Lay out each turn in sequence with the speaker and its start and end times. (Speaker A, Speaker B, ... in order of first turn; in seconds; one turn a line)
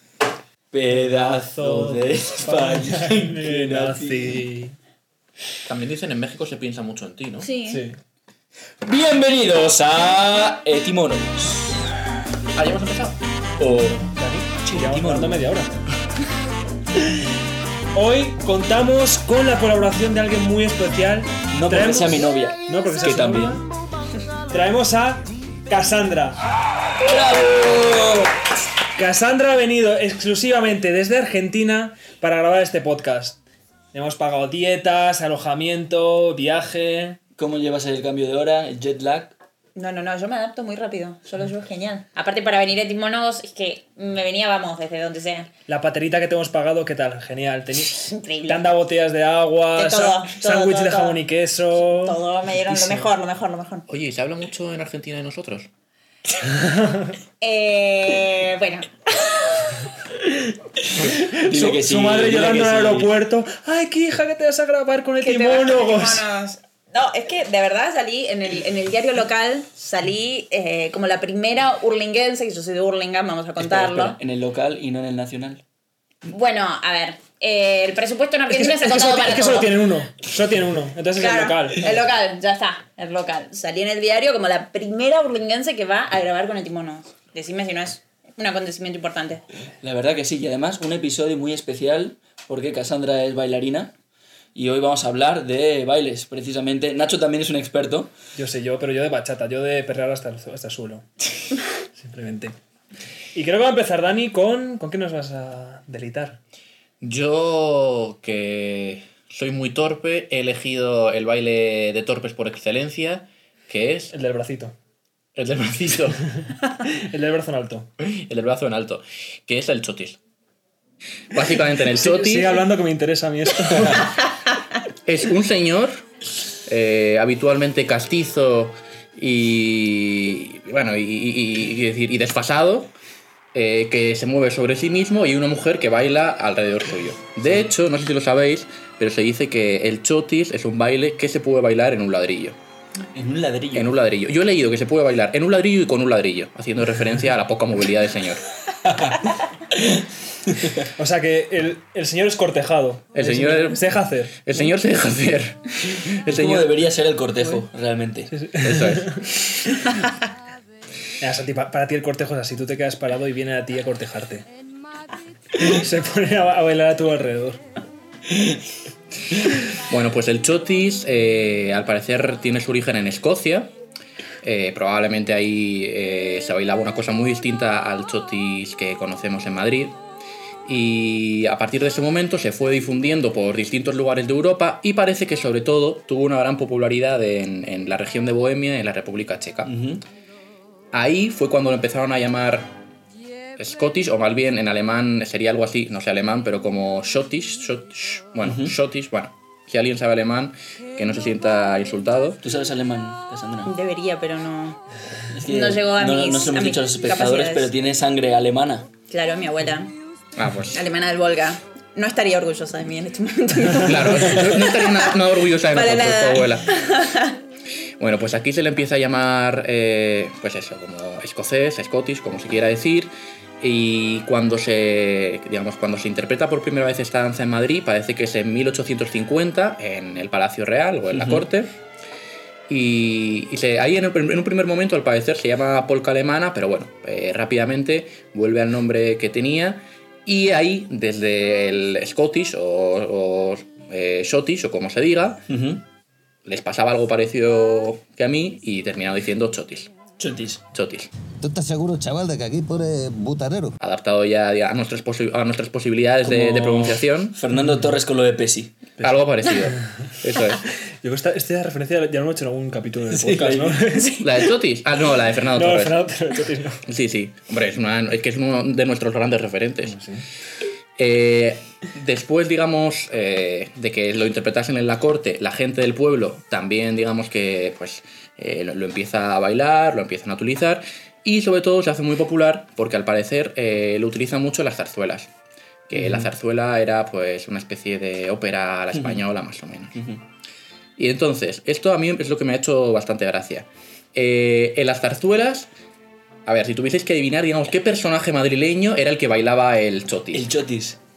Speaker A: 0.7-4.4
Speaker B: 1.2-4.8
Speaker C: 5.7-7.5
Speaker D: 7.4-7.8
Speaker B: 7.7-8.0
Speaker A: 8.8-11.8
Speaker C: 12.6-13.2
Speaker A: 13.6-15.5
Speaker B: 14.2-15.9
Speaker B: 17.0-17.3
Speaker B: 17.9-23.6
Speaker A: 21.5-23.6
Speaker B: 24.5-26.4
Speaker A: 27.1-28.2
Speaker B: 29.0-33.4
Speaker B: 33.9-37.2
Speaker A: 37.4-39.3
Speaker D: 39.8-45.5
Speaker B: 45.7-53.1
Speaker D: 48.0-48.6
Speaker D: 49.8-51.2
Speaker D: 51.9-53.9
Speaker C: 53.9-55.7
Speaker B: 56.4-57.1
Speaker D: 57.4-59.8
Speaker B: 60.3-66.2
Speaker A: 61.1-63.1
Speaker D: 65.2-74.2
Speaker A: 73.6-75.6
Speaker D: 76.3-79.8
Speaker B: 78.5-81.9
Speaker D: 81.2-89.5
Speaker A: 89.8-93.9
Speaker A: 94.5-98.1
Speaker B: 98.3-101.1
Speaker B: 102.0-102.6
Speaker B: 103.3-106.4
Speaker C: 107.0-114.1
Speaker B: 114.1-114.8
Speaker C: 115.3-116.3
Speaker B: 116.8-117.9
Speaker C: 118.0-120.2
Speaker C: 121.3-122.6
Speaker B: 121.9-124.1
Speaker C: 125.1-126.1
Speaker C: 126.6-132.9
Speaker C: 133.5-142.6
Speaker A: 143.1-143.9
Speaker C: 143.7-148.4
Speaker B: 150.8-154.4
Speaker C: 153.2-156.7
Speaker A: 156.3-158.3
Speaker B: 158.3-159.4
Speaker C: 158.6-159.2
Speaker B: 161.2-164.5
Speaker B: 165.6-167.6
Speaker C: 169.9-173.7
Speaker C: 174.4-180.0
Speaker C: 180.7-189.7
Speaker A: 189.7-190.0
Speaker C: 190.9-192.7
Speaker C: 193.6-202.4
Speaker A: 198.4-198.8
Speaker A: 202.4-203.7
Speaker D: 203.7-204.8
Speaker A: 205.3-208.9
Speaker D: 205.4-207.7
Speaker D: 209.1-209.9
Speaker C: 210.4-210.8
Speaker D: 210.7-215.2
Speaker C: 213.7-216.7
Speaker D: 215.7-217.4
Speaker C: 218.0-231.7
Speaker A: 231.1-231.5
Speaker C: 232.7-245.5
Speaker A: 245.5-245.8
Speaker C: 246.5-249.9
Speaker A: 250.2-250.6
Speaker C: 250.7-251.1
Speaker E: 251.4-253.8
Speaker C: 253.8-257.4
Speaker A: 256.2-258.8
Speaker C: 259.0-260.6
Speaker B: 261.0-264.2
Speaker A: 263.1-264.0
Speaker C: 264.2-266.0
Speaker B: 265.5-266.8
Speaker C: 266.9-270.0
Speaker B: 269.8-270.2
Speaker C: 271.0-285.3
Speaker C: 285.9-290.0
Speaker A: 285.9-286.3
Speaker A: 288.9-289.2
Speaker A: 289.9-290.2
Speaker C: 291.0-295.7
Speaker C: 296.5-300.5
Speaker A: 300.3-301.0